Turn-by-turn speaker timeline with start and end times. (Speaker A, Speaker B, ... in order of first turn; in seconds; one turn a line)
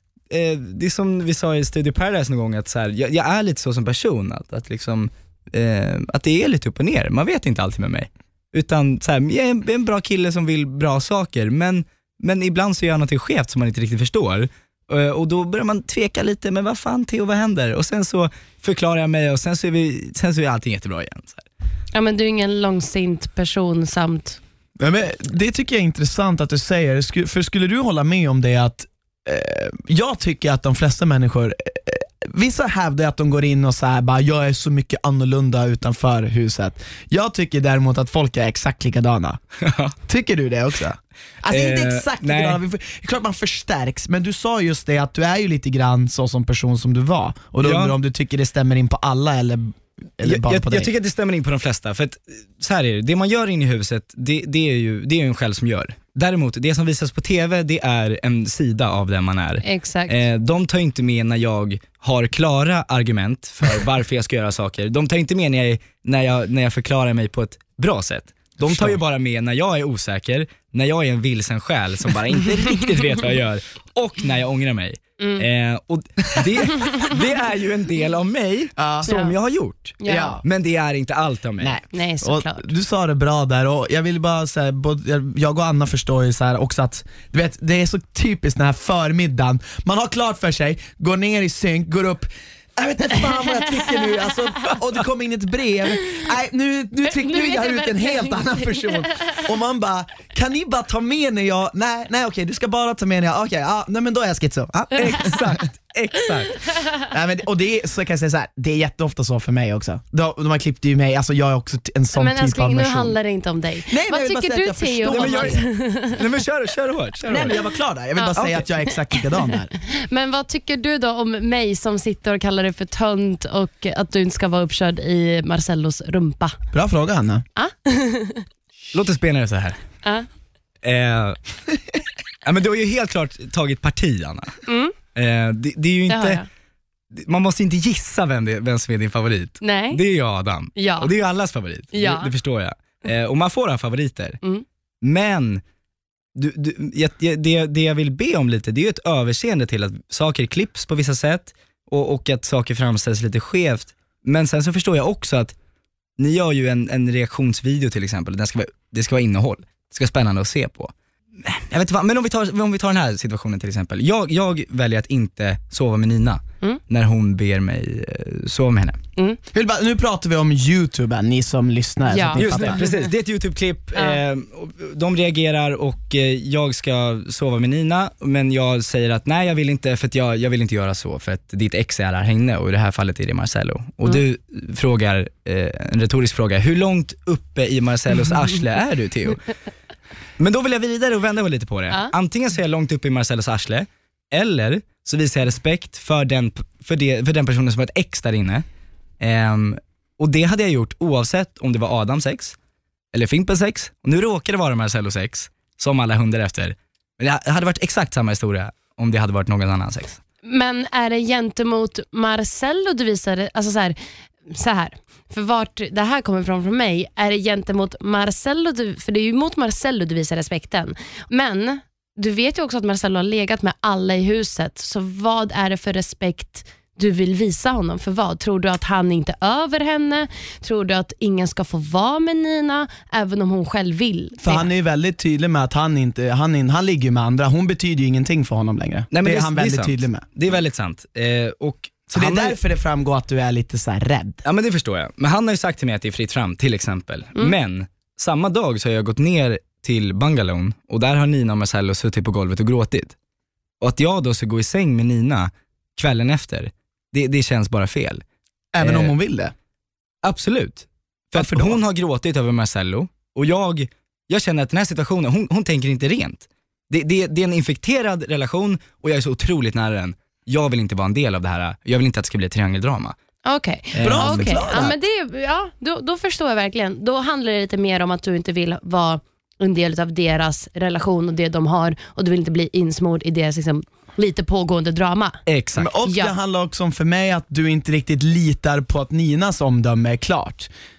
Speaker A: 0.3-21.5
Speaker B: 21.9-24.4
Speaker C: 24.8-39.4
Speaker A: 39.6-40.0
Speaker C: 40.1-50.9
Speaker A: 41.5-42.6
Speaker A: 47.6-48.0
Speaker A: 50.2-81.8
Speaker B: 59.6-60.2
Speaker C: 68.7-69.0
Speaker B: 75.2-75.5
Speaker C: 78.8-79.2
Speaker B: 79.1-79.3
Speaker B: 80.0-80.4
Speaker C: 80.0-80.4
Speaker C: 81.6-105.6
Speaker B: 81.9-82.7
Speaker B: 97.0-99.4
Speaker A: 105.0-106.5
Speaker C: 107.0-113.2
Speaker B: 112.2-116.2
Speaker C: 113.9-115.6
Speaker A: 115.1-117.5
Speaker C: 117.3-119.7
Speaker B: 118.2-118.4
Speaker A: 118.4-118.6
Speaker B: 119.1-126.6
Speaker C: 126.7-127.4
Speaker B: 127.6-128.4
Speaker A: 128.9-129.8
Speaker A: 130.8-131.4
Speaker A: 132.4-134.5
Speaker B: 134.7-134.9
Speaker A: 135.2-136.4
Speaker B: 136.1-136.4
Speaker A: 137.1-144.4
Speaker B: 139.6-140.0
Speaker B: 140.8-141.1
Speaker B: 141.9-142.3
Speaker A: 145.0-145.6
Speaker A: 146.4-155.5
Speaker A: 156.2-160.9
Speaker A: 161.4-169.0
Speaker C: 169.5-172.8
Speaker B: 172.1-173.0
Speaker A: 172.4-189.4
Speaker A: 190.4-198.7
Speaker A: 199.2-202.6
Speaker A: 203.1-210.2
Speaker B: 210.4-214.0
Speaker B: 214.5-234.7
Speaker C: 234.4-240.3
Speaker A: 239.1-242.6
Speaker C: 242.1-244.4
Speaker A: 244.4-253.2
Speaker A: 253.8-258.2
Speaker C: 258.7-259.5
Speaker A: 258.8-259.1
Speaker A: 260.2-273.1
Speaker C: 261.4-261.8
Speaker B: 273.5-285.4
Speaker A: 273.9-274.9
Speaker C: 274.0-275.0
Speaker A: 285.5-285.9
Speaker C: 285.8-290.7
Speaker B: 286.1-286.3